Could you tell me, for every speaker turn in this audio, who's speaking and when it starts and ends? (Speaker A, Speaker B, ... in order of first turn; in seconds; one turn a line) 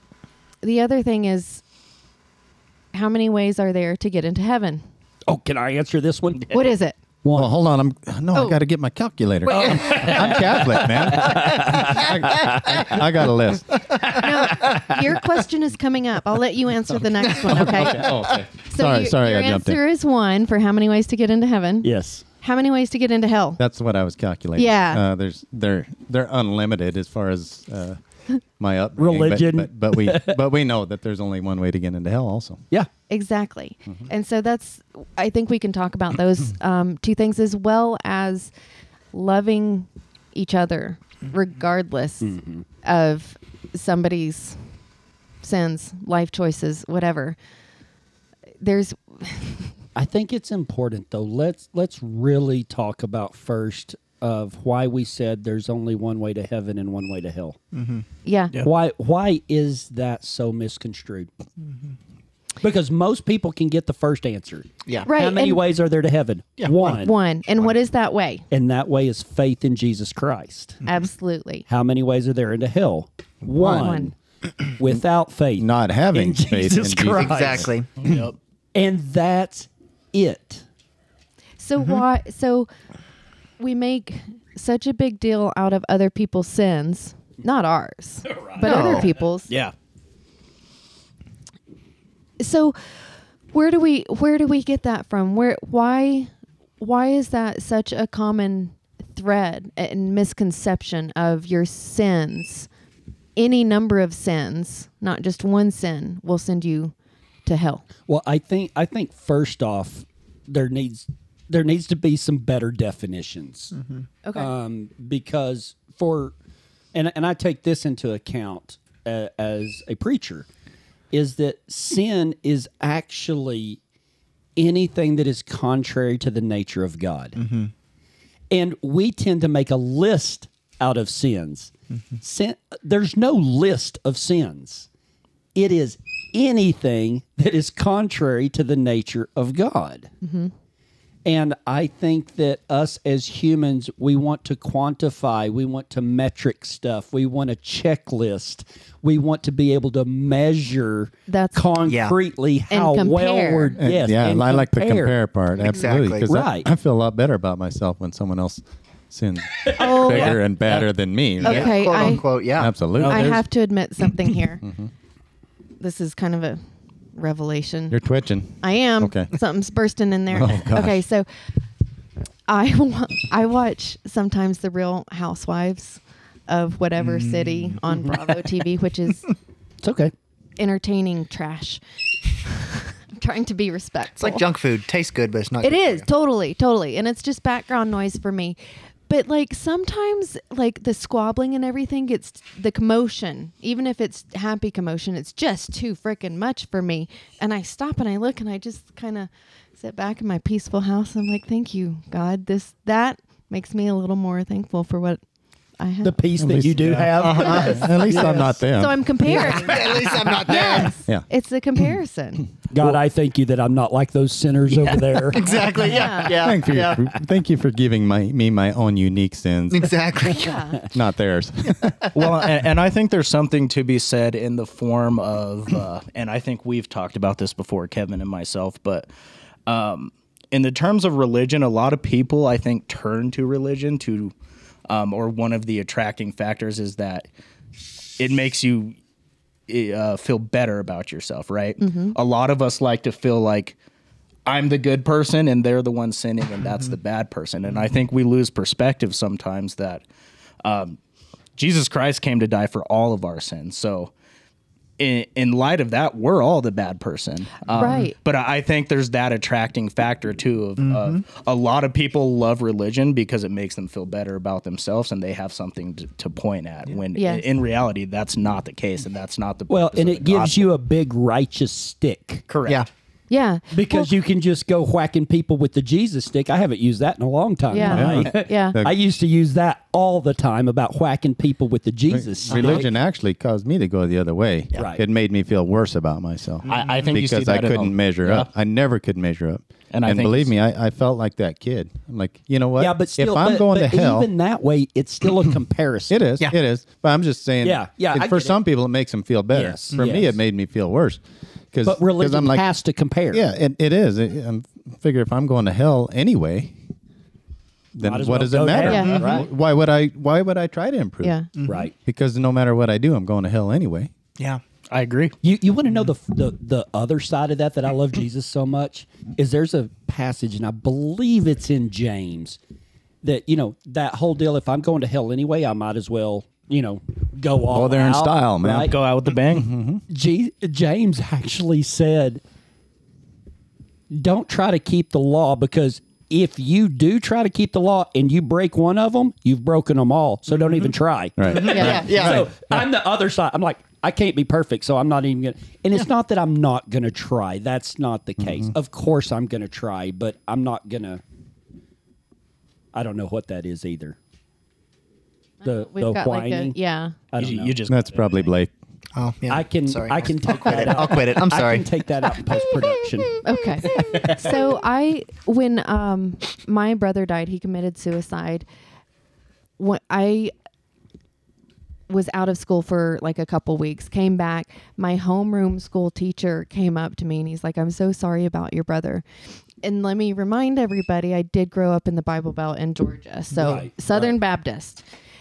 Speaker A: 0.6-1.6
Speaker A: 2.9-4.8
Speaker B: 5.3-6.6
Speaker A: 6.5-7.0
Speaker B: 7.2-7.5
Speaker C: 7.3-14.0
Speaker A: 8.3-8.6
Speaker B: 9.5-13.0
Speaker B: 13.9-15.0
Speaker A: 14.1-23.6
Speaker C: 17.4-19.8
Speaker B: 21.8-22.2
Speaker C: 23.6-28.0
Speaker A: 24.6-25.0
Speaker C: 28.6-32.6
Speaker B: 29.0-30.4
Speaker A: 33.1-38.5
Speaker A: 39.1-42.3
Speaker B: 42.2-42.6
Speaker A: 42.8-44.6
Speaker A: 45.4-47.4
Speaker A: 48.6-49.7
Speaker B: 50.0-57.6
Speaker D: 57.7-58.0
Speaker A: 58.2-58.6
Speaker B: 58.6-61.3
Speaker B: 62.6-67.2
Speaker A: 65.0-65.6
Speaker A: 66.8-68.4
Speaker B: 68.5-70.8
Speaker A: 70.8-71.6
Speaker B: 71.7-74.1
Speaker D: 73.6-73.9
Speaker A: 73.6-74.1
Speaker B: 74.8-77.7
Speaker C: 75.6-77.7
Speaker D: 77.1-77.9
Speaker E: 78.0-78.3
Speaker B: 78.7-80.6
Speaker A: 81.6-82.7
Speaker A: 83.6-89.5
Speaker B: 88.2-89.1
Speaker D: 88.6-89.1
Speaker E: 89.5-89.7
Speaker A: 92.4-92.9
Speaker A: 93.5-102.7
Speaker A: 103.3-106.9
Speaker A: 107.5-107.8
Speaker B: 108.1-113.7
Speaker A: 114.2-114.5
Speaker B: 114.3-116.3
Speaker B: 116.9-120.5
Speaker B: 121.1-123.8
Speaker B: 124.6-127.4
Speaker D: 127.4-127.7
Speaker B: 128.5-134.9
Speaker B: 135.5-140.1
Speaker A: 140.2-140.5
Speaker B: 141.2-155.2
Speaker A: 151.3-151.7
Speaker D: 151.8-152.2
Speaker A: 152.7-153.8
Speaker C: 153.8-163.4
Speaker D: 155.6-156.4
Speaker B: 156.2-156.7
Speaker B: 159.6-160.3
Speaker A: 159.7-160.4
Speaker A: 161.4-162.2
Speaker D: 161.4-162.7
Speaker E: 163.0-163.4
Speaker A: 163.0-164.7
Speaker A: 165.8-166.6
Speaker A: 167.1-168.0
Speaker C: 167.9-169.3
Speaker A: 168.6-171.3
Speaker C: 170.3-171.0
Speaker A: 172.5-179.3
Speaker B: 179.8-180.1
Speaker A: 180.6-181.8
Speaker A: 182.4-184.4
Speaker D: 184.2-186.1
Speaker A: 185.6-188.6
Speaker A: 189.1-205.2
Speaker A: 205.8-206.2
Speaker B: 206.0-208.6
Speaker C: 206.4-209.0
Speaker D: 207.2-207.8
Speaker A: 207.4-209.8
Speaker B: 209.2-210.9
Speaker D: 209.3-211.0
Speaker A: 210.4-212.5
Speaker B: 212.7-215.8
Speaker E: 214.7-215.0
Speaker D: 215.3-217.1
Speaker A: 215.8-216.4
Speaker C: 216.4-219.9
Speaker D: 219.7-220.6
Speaker A: 220.3-220.9
Speaker C: 220.9-222.0
Speaker E: 222.1-229.1
Speaker E: 229.7-234.3
Speaker E: 234.9-237.3
Speaker E: 238.2-239.0
Speaker E: 239.7-243.8
Speaker A: 241.8-242.2
Speaker E: 244.4-250.0
Speaker E: 250.6-251.0
Speaker E: 251.6-254.1
Speaker E: 255.0-270.6
Speaker A: 257.7-258.1
Speaker D: 260.8-261.2
Speaker A: 267.1-267.4
Speaker B: 269.7-272.4
Speaker E: 272.5-272.8
Speaker A: 273.3-274.1
Speaker B: 273.7-282.9
Speaker A: 277.7-278.8
Speaker C: 277.9-278.9
Speaker C: 282.1-294.3
Speaker B: 284.7-285.0
Speaker E: 286.7-288.5
Speaker E: 289.9-290.5
Speaker B: 292.8-296.2
Speaker C: 296.1-301.2
Speaker B: 297.6-298.6
Speaker B: 299.5-300.4
Speaker C: 301.7-302.6
Speaker B: 301.8-303.4
Speaker C: 303.3-306.7
Speaker C: 307.9-311.4
Speaker B: 308.0-309.5
Speaker A: 308.9-309.3
Speaker D: 309.1-309.4
Speaker A: 311.2-311.5
Speaker D: 311.6-311.9
Speaker B: 311.6-311.9
Speaker C: 312.0-314.1
Speaker E: 314.9-315.4
Speaker B: 315.4-322.6
Speaker B: 323.2-328.9
Speaker C: 327.7-328.9
Speaker E: 328.9-329.7
Speaker C: 329.5-330.0
Speaker B: 330.1-332.4
Speaker B: 334.1-351.2
Speaker C: 341.4-342.8
Speaker D: 341.5-342.5
Speaker A: 341.6-342.1
Speaker C: 348.4-348.7
Speaker B: 352.9-354.2
Speaker B: 355.6-356.8
Speaker A: 355.6-357.2
Speaker B: 357.3-357.8
Speaker E: 357.4-358.5
Speaker C: 357.9-358.7
Speaker D: 359.1-361.9
Speaker B: 359.5-364.6
Speaker A: 363.4-368.6
Speaker A: 369.8-370.5
Speaker A: 372.1-379.2
Speaker A: 379.8-385.0
Speaker B: 383.6-384.4